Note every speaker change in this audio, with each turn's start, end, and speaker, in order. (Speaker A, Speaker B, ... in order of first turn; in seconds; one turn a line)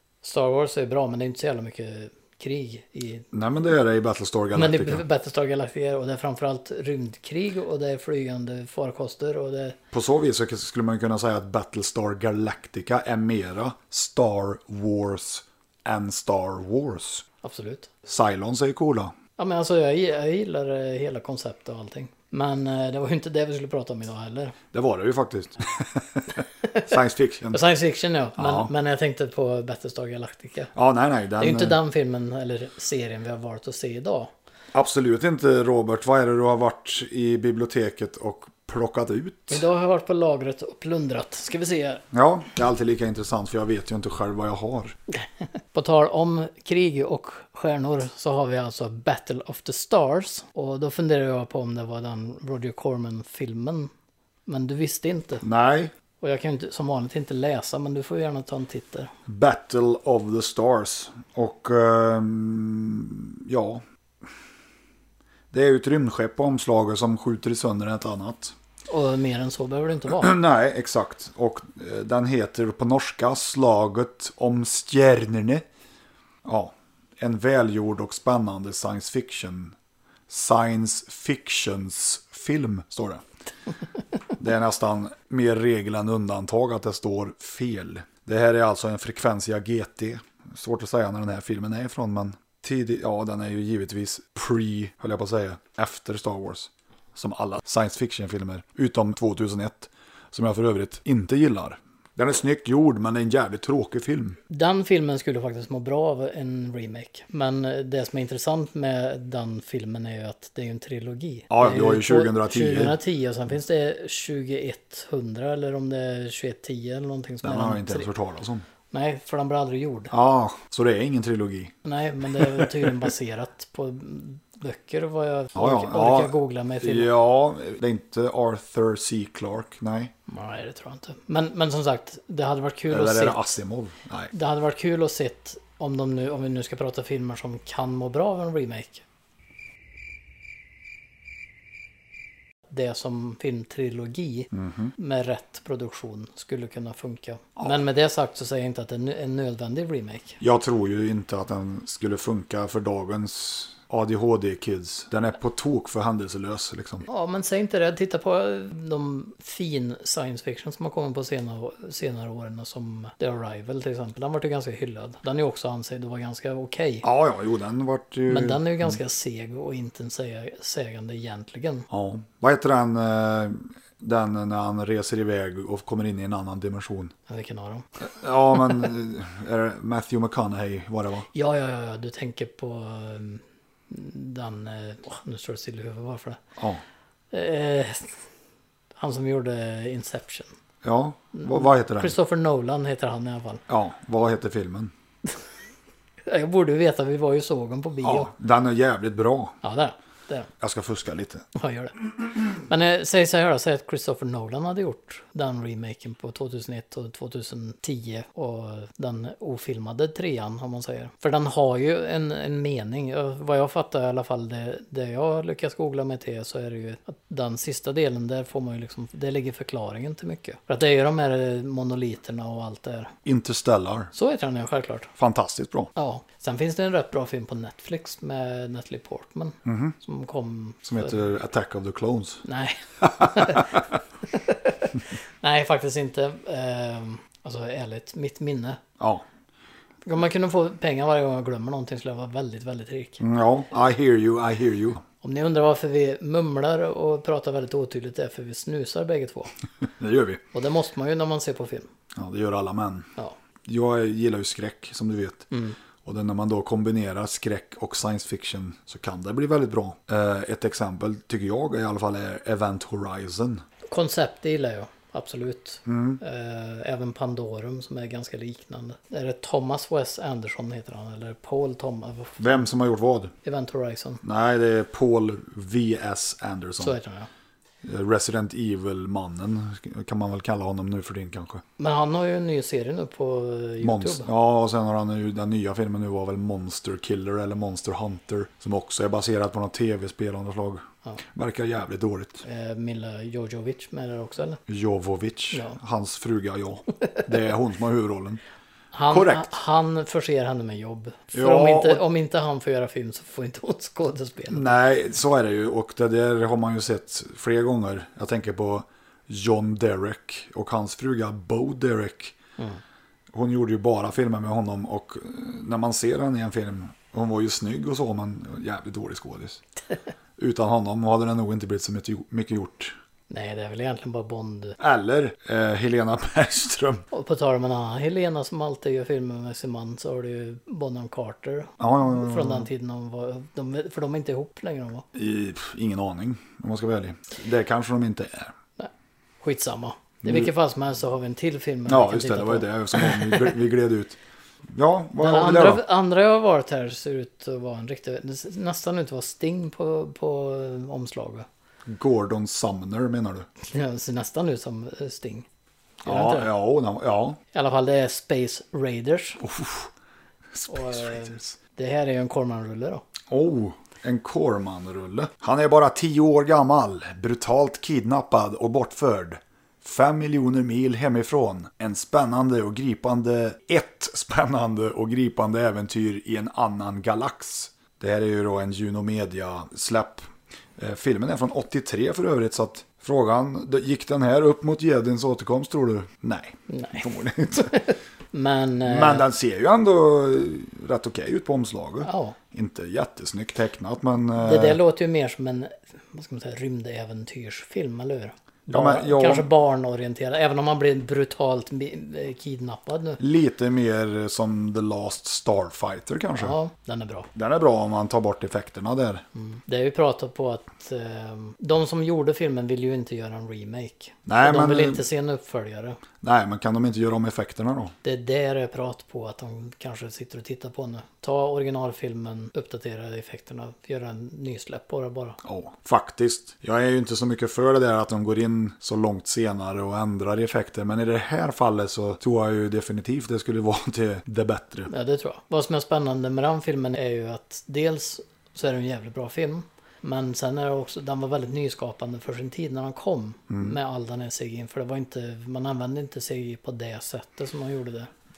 Speaker A: 0.2-3.3
Speaker B: 3.3-5.0
Speaker A: 4.5-9.8
Speaker B: 9.9-17.2
Speaker A: 17.4-17.9
Speaker B: 18.1-19.1
Speaker A: 19.4-24.6
Speaker B: 24.7-27.6
Speaker A: 27.5-30.7
Speaker B: 28.4-28.7
Speaker B: 30.8-31.8
Speaker A: 31.4-34.3
Speaker B: 34.7-39.6
Speaker A: 39.5-42.0
Speaker B: 42.1-45.0
Speaker A: 45.7-53.9
Speaker A: 54.5-55.4
Speaker B: 55.4-55.9
Speaker A: 56.2-59.1
Speaker B: 59.2-63.8
Speaker B: 65.5-68.5
Speaker A: 68.9-70.3
Speaker B: 70.1-75.6
Speaker B: 76.4-79.8
Speaker B: 80.3-83.2
Speaker B: 84.4-104.4
Speaker A: 104.5-118.1
Speaker B: 111.5-113.0
Speaker B: 117.4-118.6
Speaker A: 118.9-120.1
Speaker B: 120.1-123.0
Speaker A: 121.8-127.1
Speaker B: 125.5-130.1
Speaker A: 130.3-133.5
Speaker B: 132.9-134.3
Speaker A: 134.3-139.0
Speaker A: 142.7-150.4
Speaker B: 144.5-144.9
Speaker B: 150.4-157.1
Speaker A: 157.1-167.0
Speaker B: 167.0-169.0
Speaker A: 168.3-171.9
Speaker B: 171.9-177.1
Speaker A: 177.3-177.9
Speaker B: 178.0-181.2
Speaker A: 181.3-186.4
Speaker A: 187.3-188.1
Speaker A: 189.0-190.5
Speaker B: 190.8-192.1
Speaker A: 191.4-193.6
Speaker B: 193.7-194.9
Speaker A: 196.2-198.3
Speaker B: 198.0-199.6
Speaker A: 199.6-200.5
Speaker B: 200.6-201.5
Speaker A: 201.5-201.9
Speaker A: 202.5-223.1
Speaker B: 223.2-224.1
Speaker A: 224.1-225.1
Speaker B: 225.2-225.9
Speaker A: 225.9-231.1
Speaker B: 229.6-230.0
Speaker B: 230.8-232.4
Speaker A: 232.4-233.8
Speaker B: 233.0-233.8
Speaker A: 234.3-238.8
Speaker B: 239.0-239.2
Speaker A: 240.1-243.2
Speaker B: 243.2-245.0
Speaker A: 245.2-249.5
Speaker B: 250.0-250.4
Speaker A: 250.5-251.9
Speaker B: 252.1-253.1
Speaker B: 253.7-255.5
Speaker A: 255.5-255.8
Speaker B: 256.0-263.6
Speaker A: 263.9-272.6
Speaker B: 265.9-266.2
Speaker B: 272.4-273.3
Speaker A: 273.4-274.2
Speaker B: 274.2-277.0
Speaker A: 276.8-277.3
Speaker B: 277.8-281.6
Speaker A: 281.8-284.3
Speaker B: 283.8-292.4
Speaker A: 292.4-294.6
Speaker B: 294.7-298.4
Speaker A: 298.9-304.8
Speaker B: 299.1-299.5
Speaker B: 301.3-302.0
Speaker B: 304.5-312.4
Speaker B: 313.3-319.6
Speaker B: 320.4-322.9
Speaker A: 323.3-324.8
Speaker B: 324.8-327.1
Speaker A: 327.1-335.1
Speaker B: 331.8-332.7
Speaker B: 335.1-338.5
Speaker A: 338.8-343.5
Speaker B: 340.2-340.5
Speaker B: 341.9-344.2
Speaker B: 344.7-345.8
Speaker A: 345.2-351.5
Speaker B: 351.9-353.5
Speaker A: 353.6-355.5
Speaker A: 356.0-356.5
Speaker B: 356.0-357.4
Speaker A: 357.5-359.4
Speaker B: 359.4-359.9
Speaker B: 360.5-361.6
Speaker A: 360.7-363.0
Speaker B: 363.3-387.7
Speaker A: 386.7-389.3
Speaker B: 388.8-394.8
Speaker A: 392.0-392.4
Speaker A: 394.4-403.2
Speaker B: 398.7-399.5
Speaker B: 403.2-406.6
Speaker A: 406.4-407.3
Speaker B: 407.3-409.2
Speaker A: 409.4-416.0
Speaker B: 414.2-415.0
Speaker B: 416.2-417.9
Speaker A: 418.0-425.4
Speaker B: 425.4-434.9
Speaker A: 434.9-448.1
Speaker B: 443.5-443.8